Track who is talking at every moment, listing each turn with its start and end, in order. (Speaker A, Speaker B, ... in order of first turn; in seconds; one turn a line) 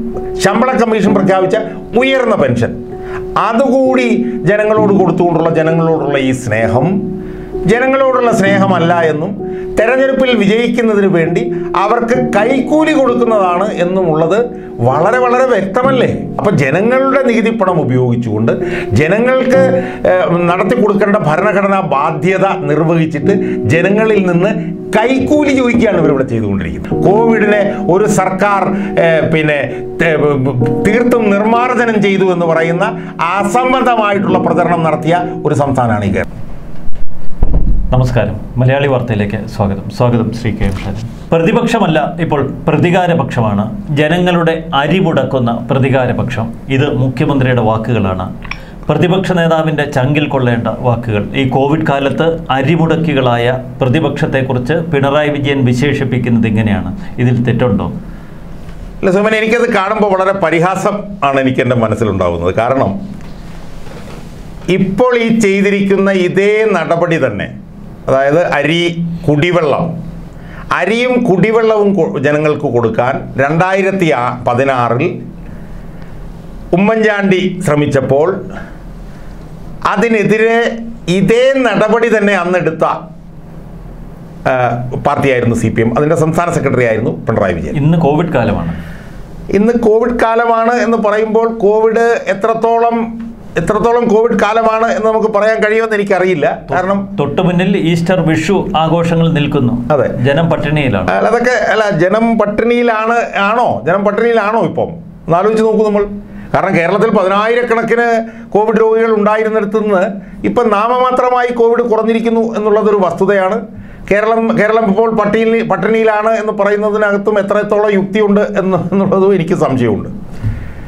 Speaker A: 0.4-2.8
Speaker A: 3.4-6.9
Speaker A: 7.7-36.3
Speaker B: 37.9-48.3
Speaker B: 48.9-57.9
Speaker A: 59.0-63.0
Speaker A: 64.7-67.5
Speaker A: 68.1-69.9
Speaker A: 70.8-75.1
Speaker A: 76.7-78.3
Speaker A: 79.9-83.0
Speaker A: 84.5-87.8
Speaker B: 87.7-88.8
Speaker A: 89.5-93.0
Speaker A: 93.6-97.1
Speaker B: 96.7-101.1
Speaker A: 99.9-100.2
Speaker A: 101.1-120.1